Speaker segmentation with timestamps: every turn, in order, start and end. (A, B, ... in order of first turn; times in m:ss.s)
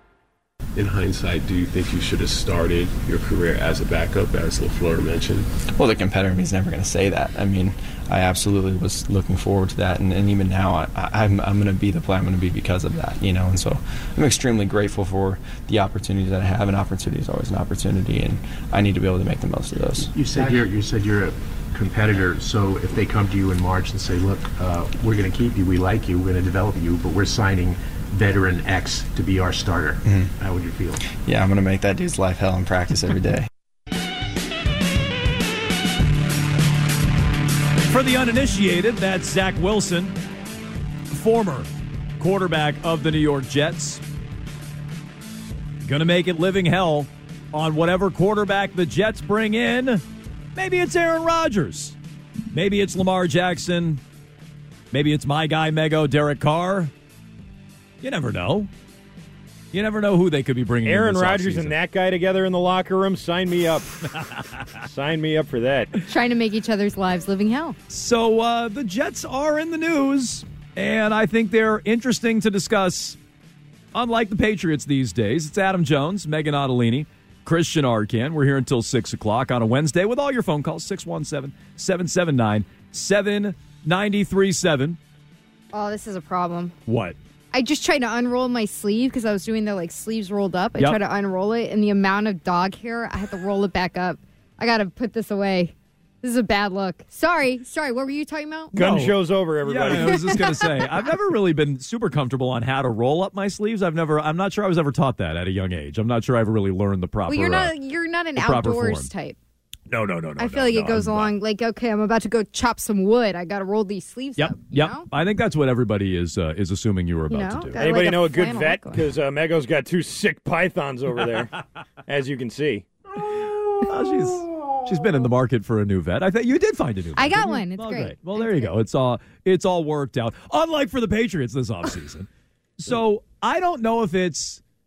0:00.8-0:05.5 A
0:05.7-0:20.2 B
0:20.1-0:31.0 C
0:30.0-0:30.3 B
0:31.1-0:33.5 B
0:37.9-0:40.2 D
0:41.1-0:41.7 D
0:42.2-0:44.0 D
0:45.8-0:50.0 D
0:50.6-0:52.0 D
0:52.5-0:54.0 D
0:54.9-0:56.9 D
0:58.0-0:58.7 D
0:59.7-1:01.7 D
1:00.9-1:03.9 E
1:04.8-1:05.9 E
1:06.1-1:07.8 F
1:07.9-1:13.2 D
1:13.9-1:25.0 D
1:25.7-1:26.7 F
1:26.9-1:27.2 D
1:27.5-1:38.7 F
1:38.7-1:47.7 D
1:38.7-1:40.6 E
1:40.0-1:40.6 F
1:47.3-1:49.4 F
1:48.4-1:49.1 D
1:49.9-1:51.3 D
1:50.4-1:55.1 F
1:54.4-1:57.8 D
1:57.3-1:59.0 F
1:57.8-2:01.6 E
2:02.1-2:02.9 E
2:03.3-2:12.3 D
2:07.2-2:08.7 F
2:12.8-2:14.6 D